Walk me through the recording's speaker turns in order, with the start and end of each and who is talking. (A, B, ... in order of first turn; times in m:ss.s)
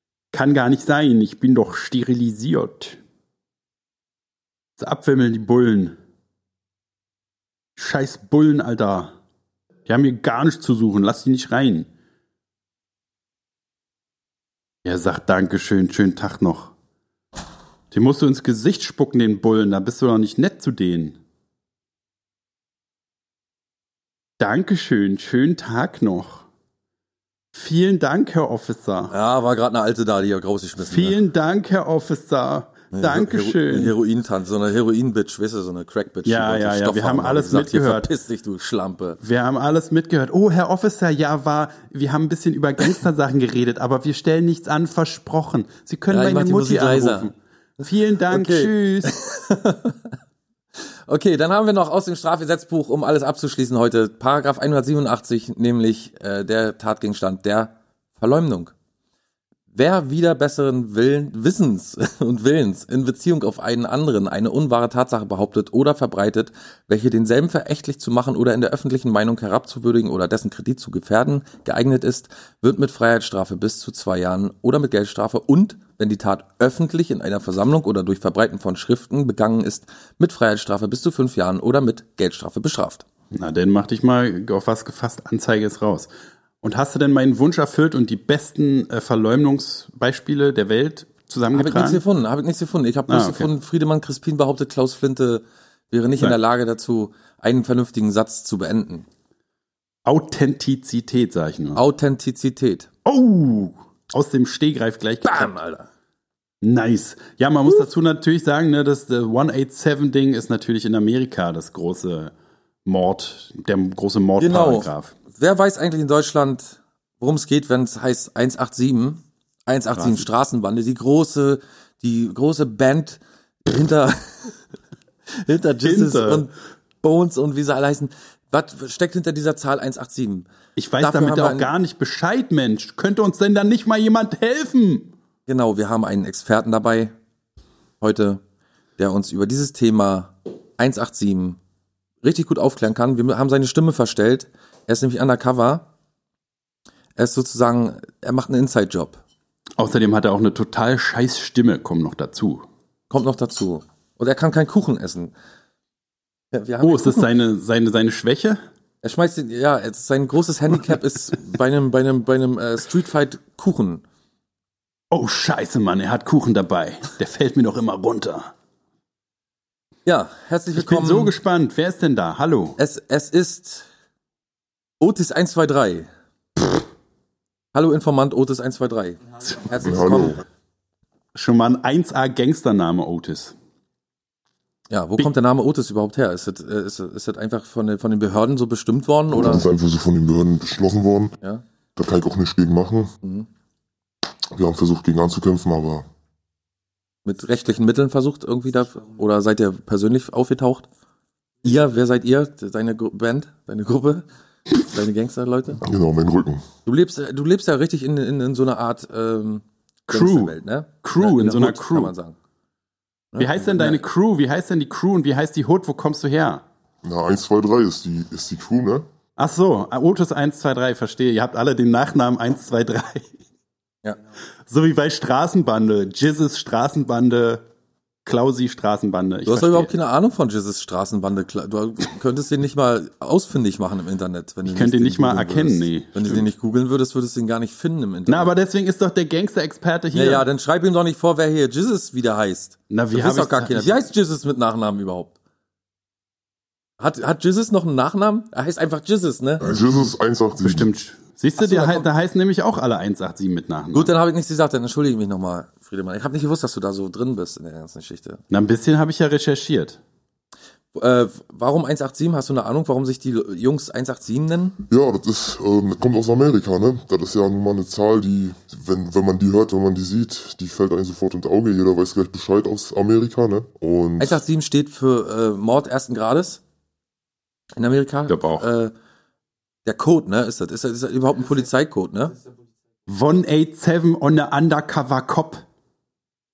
0:00.3-0:03.0 A
0:04.8-0:06.0 A
0:07.8-0:09.1 A
0:09.8-0:11.9 A
0:14.8-0:16.7 A
0:17.9-0:21.2 A
0:24.4-0:26.4 A
0:27.5-0:29.1 A
0:29.1-0:31.2 B
0:30.8-0:33.9 A
0:32.9-0:39.2 B
0:36.2-0:38.1 A
0:39.2-0:49.1 A
0:46.1-0:47.3 B
0:48.3-0:50.2 B
0:50.8-0:58.7 B
0:59.7-1:23.0 B
1:23.3-1:26.1 A
1:26.6-1:32.0 A
1:31.5-1:39.0 B
1:33.1-1:33.5 A
1:40.0-1:41.8 A
1:41.7-1:42.9 B
1:43.0-1:45.5 A
1:45.2-1:45.9 B
1:46.6-1:52.3 A
1:52.8-1:55.1 A
1:54.4-2:04.5 B
2:00.0-2:00.2 A
2:05.4-2:06.5 B
2:05.8-2:06.5 A
2:07.0-2:10.5 B
2:10.8-2:15.1 A
2:11.0-2:11.7 B
2:15.5-2:17.1 B
2:18.0-2:18.4 B
2:19.0-2:21.6 B
2:22.2-2:25.9 B
2:27.2-2:29.2 B
2:29.8-2:32.6 A
2:33.1-2:35.3 B
2:36.5-2:37.3 B
2:36.8-2:38.6 A
2:39.0-2:44.0 B
2:45.1-2:48.5 A
2:50.0-2:51.3 B
2:50.7-2:52.8 A
2:52.8-2:53.9 B
2:55.0-2:56.1 B
2:57.7-3:00.4 B
2:59.8-3:00.3 C
3:01.3-3:03.5 A
3:04.9-3:09.6 B
3:09.3-3:11.3 C
3:12.0-3:13.1 C
3:14.5-3:16.0 C
3:17.2-3:20.9 B
3:21.6-3:25.8 B
3:25.8-3:26.6 C
3:26.8-3:32.4 B
3:30.1-3:32.1 A
3:33.3-3:34.0 B
3:33.4-3:36.6 A
3:37.0-3:39.1 C
3:39.4-3:43.4 A
3:44.7-3:47.6 A
3:48.2-3:49.9 A
3:49.4-3:58.5 B
3:54.7-3:56.5 A
3:58.3-4:00.4 A
4:00.1-4:05.3 B
4:02.9-4:04.0 A
4:07.0-4:09.6 B
4:09.6-4:10.9 C
4:10.6-4:14.1 A
4:11.6-4:12.0 B
4:13.9-4:18.4 B
4:18.5-4:20.0 A
4:20.9-4:24.8 B
4:24.9-4:34.4 C
4:34.2-4:36.6 B
4:37.8-4:38.9 B
4:38.3-4:38.7 A
4:39.8-4:42.4 B
4:43.1-4:45.6 A